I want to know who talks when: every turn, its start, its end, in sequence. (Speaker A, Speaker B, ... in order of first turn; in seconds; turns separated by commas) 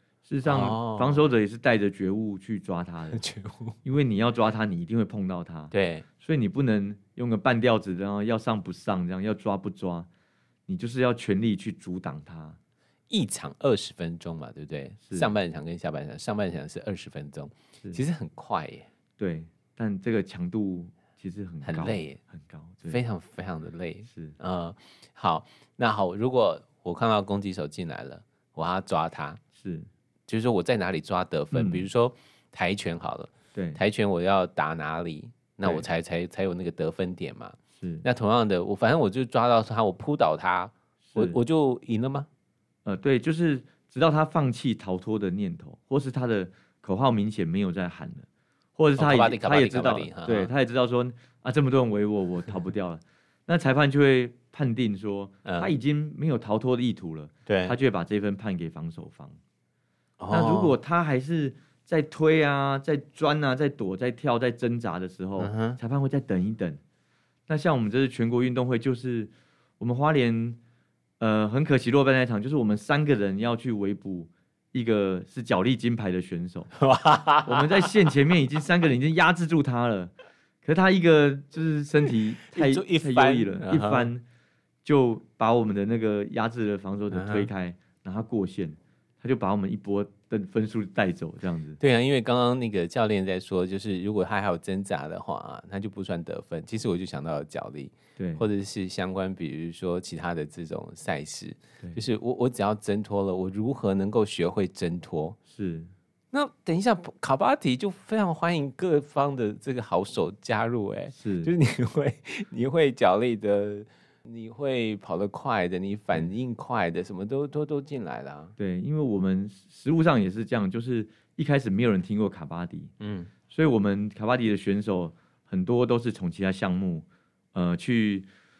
Speaker A: 0.2-3.2, Speaker B: 0.4-1.2, Speaker B: 3.1-3.8, Speaker A: 3.8-10.1, Speaker B: 5.7-6.0, Speaker A: 10.7-12.6, Speaker B: 13.1-18.9, Speaker A: 15.0-15.3, Speaker A: 19.2-23.0, Speaker B: 21.6-22.2, Speaker B: 22.9-29.4, Speaker A: 24.1-24.4, Speaker A: 29.6-29.9, Speaker B: 30.3-42.3, Speaker A: 31.5-31.9, Speaker A: 33.5-33.8, Speaker A: 37.8-38.0, Speaker A: 41.0-41.4, Speaker A: 42.8-48.2, Speaker A: 48.8-59.4, Speaker B: 49.0-50.5, Speaker B: 55.4-55.7, Speaker B: 57.5-57.8, Speaker B: 60.2-60.8, Speaker A: 60.3-66.8, Speaker B: 65.4-65.8, Speaker A: 67.5-70.6, Speaker A: 71.2-76.7, Speaker B: 76.8-77.9, Speaker A: 77.4-84.2, Speaker B: 82.5-84.1, Speaker A: 84.8-91.8, Speaker B: 87.1-87.5, Speaker B: 91.8-105.4, Speaker A: 98.2-98.4, Speaker A: 105.5-105.9, Speaker B: 106.3-118.5, Speaker A: 111.1-111.5, Speaker A: 118.6-122.9, Speaker B: 123.0-123.3, Speaker A: 123.5-128.3